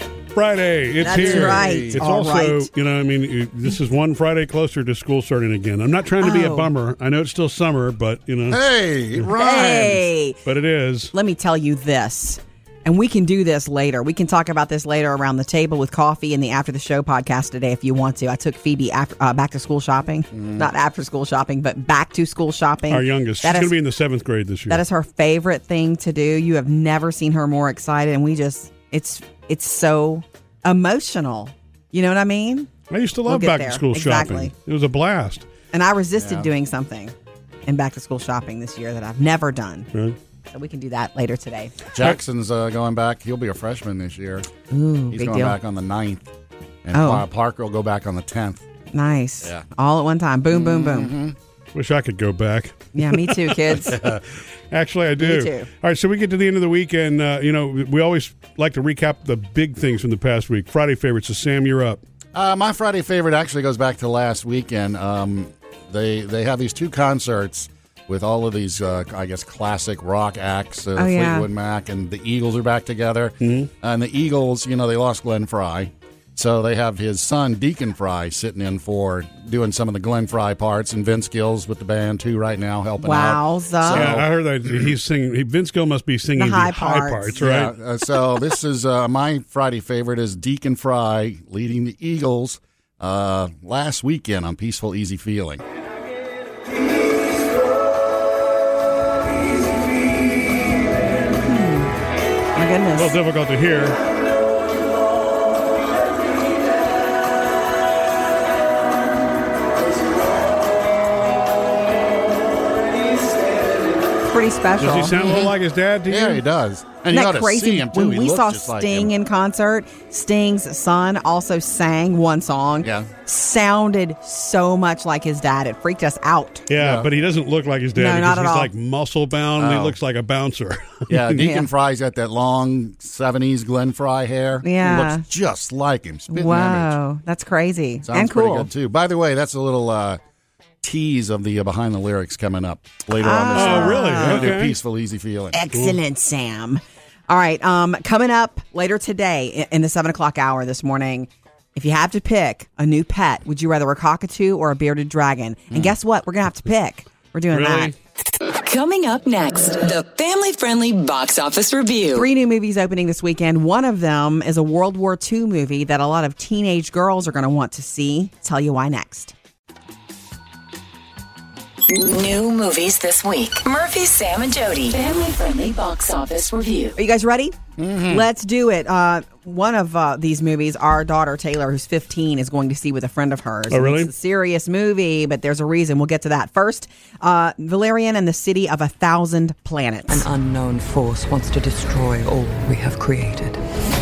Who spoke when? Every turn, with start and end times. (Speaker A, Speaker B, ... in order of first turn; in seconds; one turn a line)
Speaker A: 0.3-8.6
Speaker B: 1.0-2.7
Speaker C: 1.1-2.0
Speaker B: 6.2-6.7
Speaker C: 8.5-10.1
Speaker B: 9.3-10.4
Speaker A: 10.4-11.1
Speaker B: 11.1-23.7
Speaker C: 20.3-20.7
Speaker A: 22.9-24.8
Speaker B: 24.7-32.7
Speaker A: 32.9-35.5
Speaker B: 33.3-34.5
Speaker B: 35.7-37.1
Speaker C: 36.2-36.5
Speaker B: 37.7-39.9
Speaker B: 40.5-41.7
Speaker C: 41.9-44.5
Speaker B: 44.7-45.6
Speaker C: 45.1-46.2
Speaker C: 46.8-48.6
Speaker B: 46.9-47.2
Speaker B: 48.9-51.1
Speaker C: 50.5-51.4
Speaker A: 51.7-52.9
Speaker B: 52.9-54.0
Speaker C: 53.7-54.2
Speaker A: 54.7-62.0
Speaker B: 55.2-55.7
Speaker C: 62.3-84.9
Speaker B: 71.0-71.5
Speaker A: 73.4-73.7
Speaker B: 83.0-84.1
Speaker A: 83.9-87.7
Speaker B: 86.3-87.4
Speaker C: 87.4-95.6
Speaker B: 101.4-101.9
Speaker B: 102.5-103.1
Speaker A: 103.0-104.0
Speaker B: 114.2-115.5
Speaker A: 114.8-116.4
Speaker C: 115.2-115.5
Speaker C: 116.1-119.1
Speaker B: 117.1-126.7
Speaker C: 122.8-123.1
Speaker A: 126.7-131.1
Speaker C: 126.8-127.1
Speaker B: 127.9-128.7
Speaker C: 129.6-130.0
Speaker C: 131.1-137.0
Speaker B: 131.3-131.7
Speaker B: 134.6-135.2
Speaker B: 136.3-138.7
Speaker C: 138.0-140.2
Speaker C: 140.8-145.6
Speaker B: 143.2-144.5
Speaker A: 143.5-144.8
Speaker B: 145.5-157.9
Speaker A: 157.5-157.9
Speaker D: 158.5-162.3
Speaker B: 162.1-169.3
Speaker D: 171.9-176.9
Speaker B: 177.0-190.2
Speaker C: 177.8-178.2
Speaker A: 183.7-184.1
Speaker E: 190.1-193.6